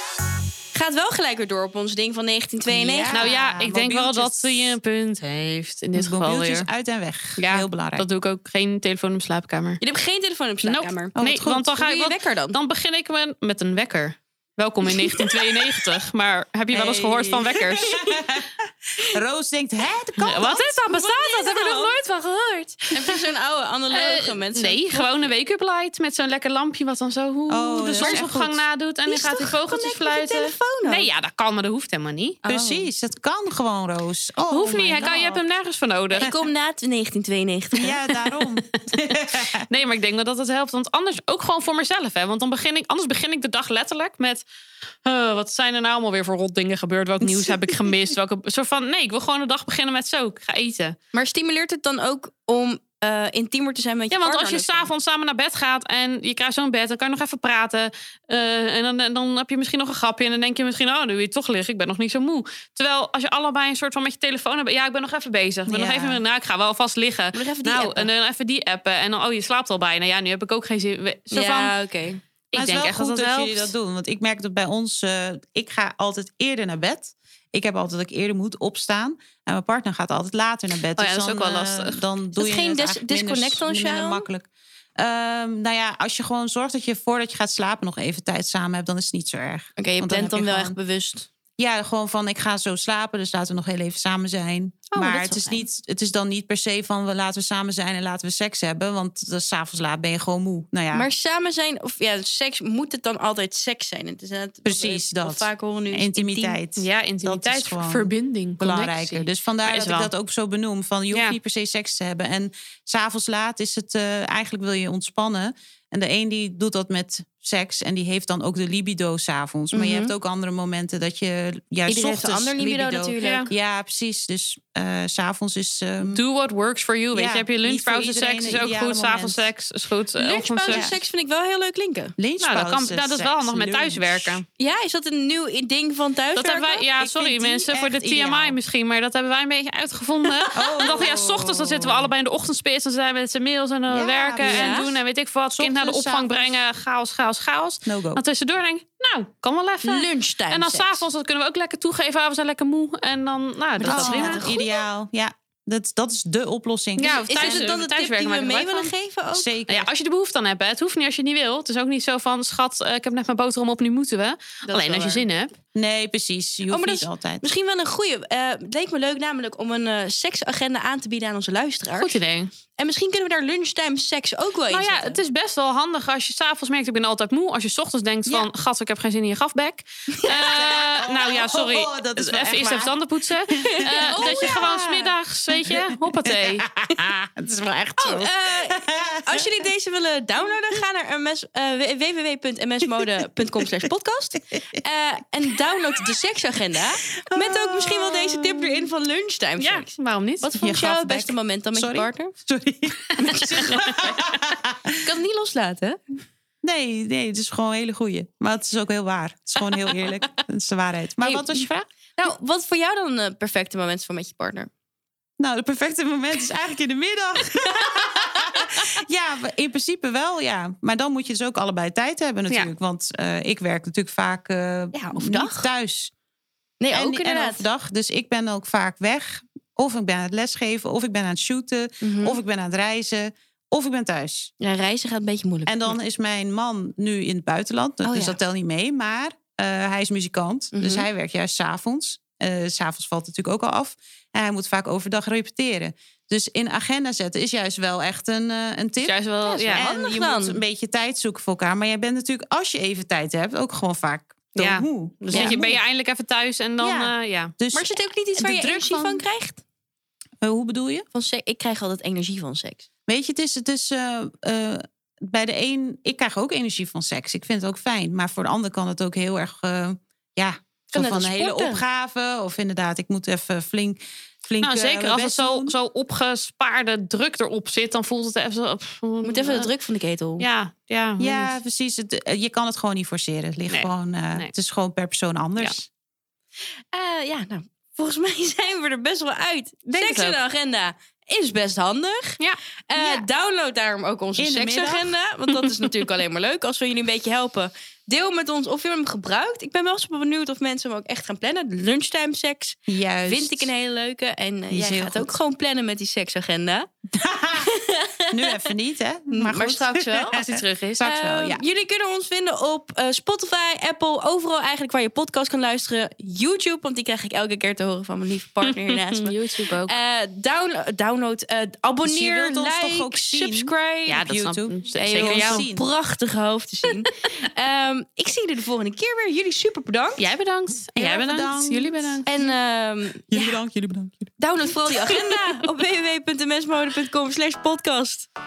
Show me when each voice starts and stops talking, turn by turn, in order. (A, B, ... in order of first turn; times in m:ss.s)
0:00.7-0:03.3 A
0:02.7-0:04.7 B
0:03.1-0:06.7 C
0:05.9-0:08.0 B
0:07.4-0:09.8 C
0:09.8-0:11.1 A
0:10.6-0:18.0 C
0:11.2-0:11.7 B
0:11.7-0:12.6 A
0:16.7-0:20.8 B
0:20.2-0:23.1 C
0:20.5-0:21.9 A
0:22.9-0:25.3 A
0:23.9-0:32.4 C
0:27.5-0:28.6 B
0:27.9-0:28.2 A
0:29.1-0:31.1 A
0:32.4-0:32.9 A
0:32.4-0:35.4 B
0:34.5-0:36.3 C
0:36.1-0:37.9 A
0:37.7-0:39.6 B
0:38.3-0:44.4 C
0:45.0-0:51.0 C
0:47.2-0:47.9 A
0:51.1-0:54.9 A
0:54.1-1:11.7 C
1:05.7-1:06.2 B
1:07.3-1:08.1 A
1:11.3-1:12.2 A
1:12.5-1:13.7 C
1:12.5-1:30.8 B
1:21.0-1:22.0 C
1:22.4-1:24.3 A
1:29.8-1:31.3 A
1:31.6-1:41.1 B
1:34.9-1:35.6 A
1:40.9-1:46.6 A
1:44.6-2:06.2 B
1:46.8-1:50.1 C
1:51.1-1:51.4 C
1:59.7-2:00.1 A
2:01.9-2:03.5 A
2:03.2-2:03.5 C
2:06.1-2:10.9 C
2:07.1-2:09.5 B
2:10.2-2:12.2 A
2:12.2-2:14.4 B
2:12.4-2:14.4 C
2:14.6-2:16.8 A
2:16.4-2:34.5 C
2:17.0-2:18.6 B
2:20.5-2:22.1 B
2:23.9-2:25.0 B
2:24.4-2:24.9 A
2:25.5-2:26.6 B
2:27.8-2:28.2 B
2:29.8-2:31.0 A
2:33.8-2:34.8 A
2:33.8-2:37.7 B
2:37.0-2:38.9 C
2:37.0-2:39.5 A
2:39.3-2:39.9 B
2:39.7-2:45.5 C
2:44.6-2:45.2 A
2:45.7-2:47.4 B
2:46.7-2:52.2 A
2:52.0-2:52.5 C
2:52.8-2:55.2 A
2:54.7-3:06.7 C
3:00.1-3:00.5 A
3:00.3-3:03.0 B
3:03.6-3:04.8 A
3:03.7-3:09.6 B
3:08.0-3:22.3 A
3:17.2-3:18.7 B
3:19.6-3:20.5 C
3:20.5-3:25.1 B
3:23.2-3:24.2 A
3:25.0-3:26.0 A
3:26.6-3:31.9 B
3:31.2-3:34.7 A
3:35.4-3:46.1 B
3:37.8-3:38.7 A
3:44.9-3:45.7 A
3:46.8-3:47.6 A
3:46.9-3:54.5 B
3:52.0-3:52.4 A
3:54.6-3:56.0 A
3:55.7-4:15.8 B
3:58.0-3:58.4 A
4:00.7-4:01.1 A
4:09.0-4:09.8 C
4:09.5-4:10.6 A
4:14.6-4:17.5 C
4:15.3-4:15.6 A
4:16.8-4:19.2 B
4:17.7-4:19.6 A
4:20.4-4:21.0 B
4:21.1-4:22.8 A
4:23.1-4:35.8 B
4:30.9-4:31.8 A
4:34.6-4:39.7 C
4:39.2-4:40.5 A
4:40.4-4:41.5 C
4:41.2-4:45.9 B
4:43.7-4:44.5 C
4:46.9-5:06.9 A
4:49.9-4:50.4 C
4:54.4-4:55.2 B
5:02.9-5:03.7 B
5:04.7-5:05.3 B
5:07.1-5:07.7 B
5:07.6-5:08.6 A
5:08.3-5:11.6 B
5:09.3-5:10.3 A
5:10.1-5:11.1 C
5:11.0-5:24.2 A
5:18.9-5:20.0 C
5:22.0-5:25.9 B
5:24.1-5:25.6 C
5:25.0-5:30.3 A
5:30.2-5:32.2 C
5:31.0-5:32.5 B
5:32.2-5:33.6 A
5:33.3-5:34.3 B
5:34.4-5:38.3 A